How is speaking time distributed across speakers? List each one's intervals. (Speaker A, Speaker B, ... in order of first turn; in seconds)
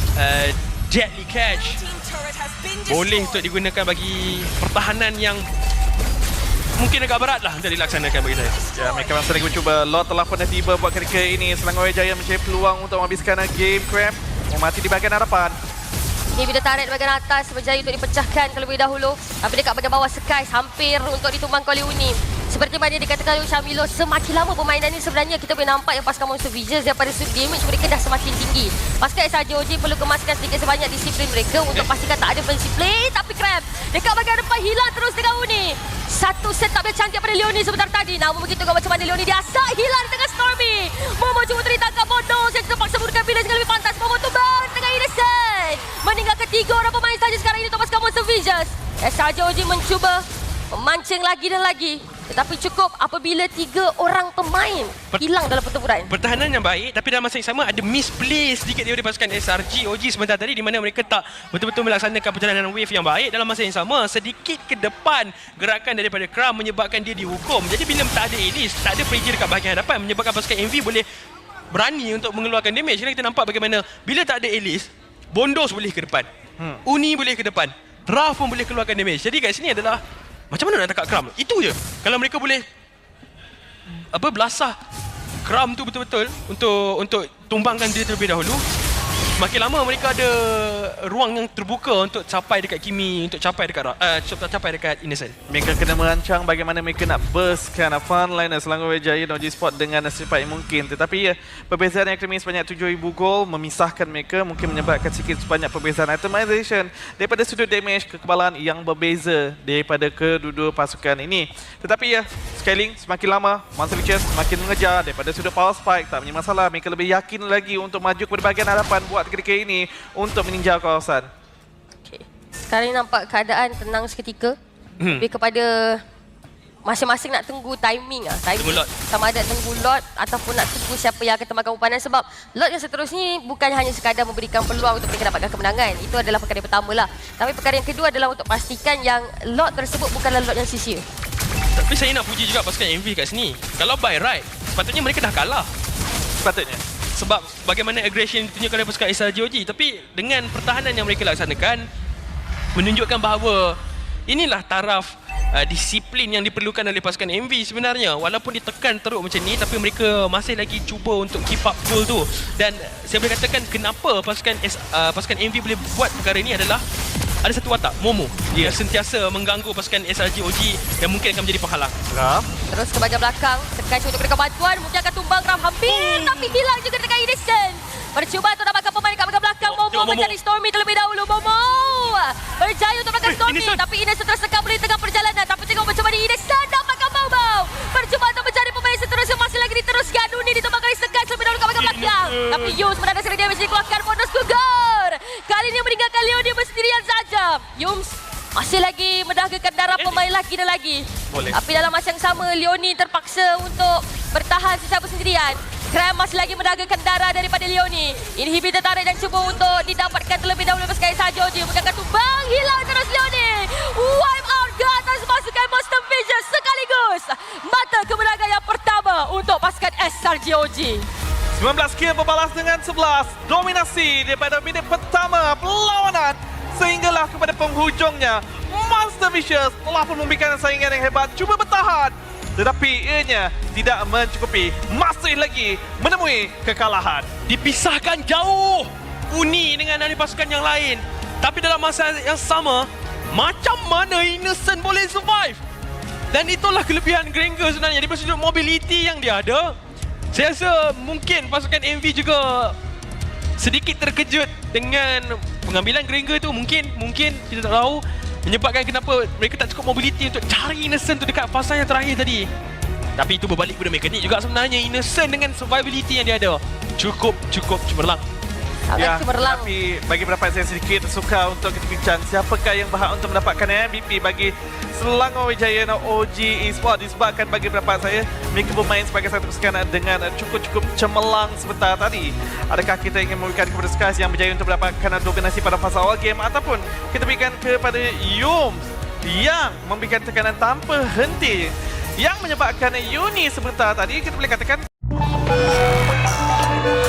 Speaker A: 0.1-1.9, 2.6-5.5, 6.8-8.6, 56.1-71.1, 71.7-76.3, 76.8-82.6, 84.1-84.8, 85.4-88.6, 89.3-95.3, 125.0-125.3, 128.6-128.9, 141.8-145.7, 147.2-151.9, 152.7-166.8, 167.4-171.9, 175.8-176.6, 179.6-180.4, 183.2-183.8, 191.8-192.8, 237.4-245.6, 246.3-249.8, 250.3-252.8, 253.6-262.5, 263.2-268.2
Speaker B: 8.7-15.6, 95.5-121.3, 146.4-146.8, 168.5-168.8, 172.1-172.5, 201.3-201.6, 221.6-237.3, 269.0-294.9
Speaker C: 16.3-56.1, 122.0-124.5, 125.1-126.0, 126.8-141.1, 172.7-221.1, 268.9-269.7